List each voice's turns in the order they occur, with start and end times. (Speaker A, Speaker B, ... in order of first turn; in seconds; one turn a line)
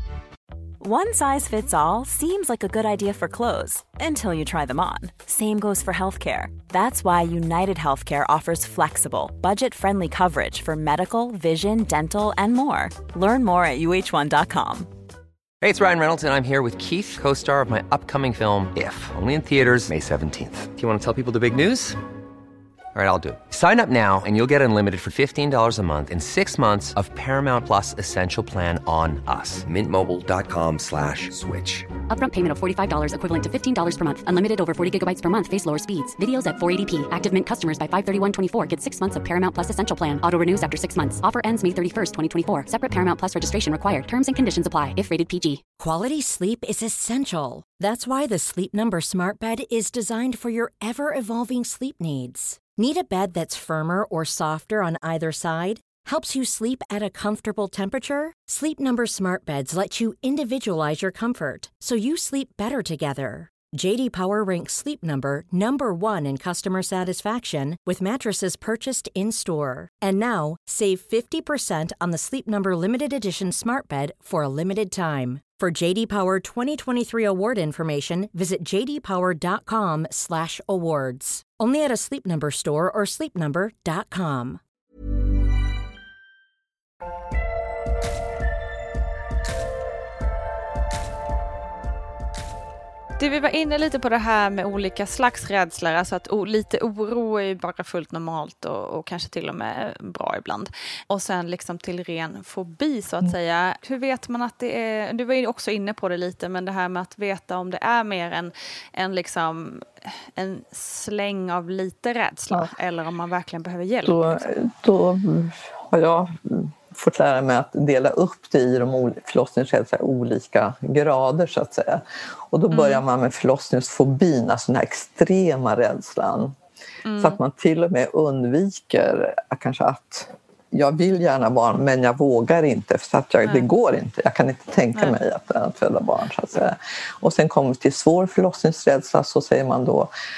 Speaker A: 0.8-14.9
Speaker B: 15.6-22.0
Speaker B: 22.9-31.9
Speaker C: 32.1-45.6
Speaker D: 45.8-84.6
Speaker E: 93.2-114.5
Speaker F: 114.0-126.5
Speaker E: 122.7-123.0
Speaker E: 127.0-127.4
Speaker F: 127.2-140.1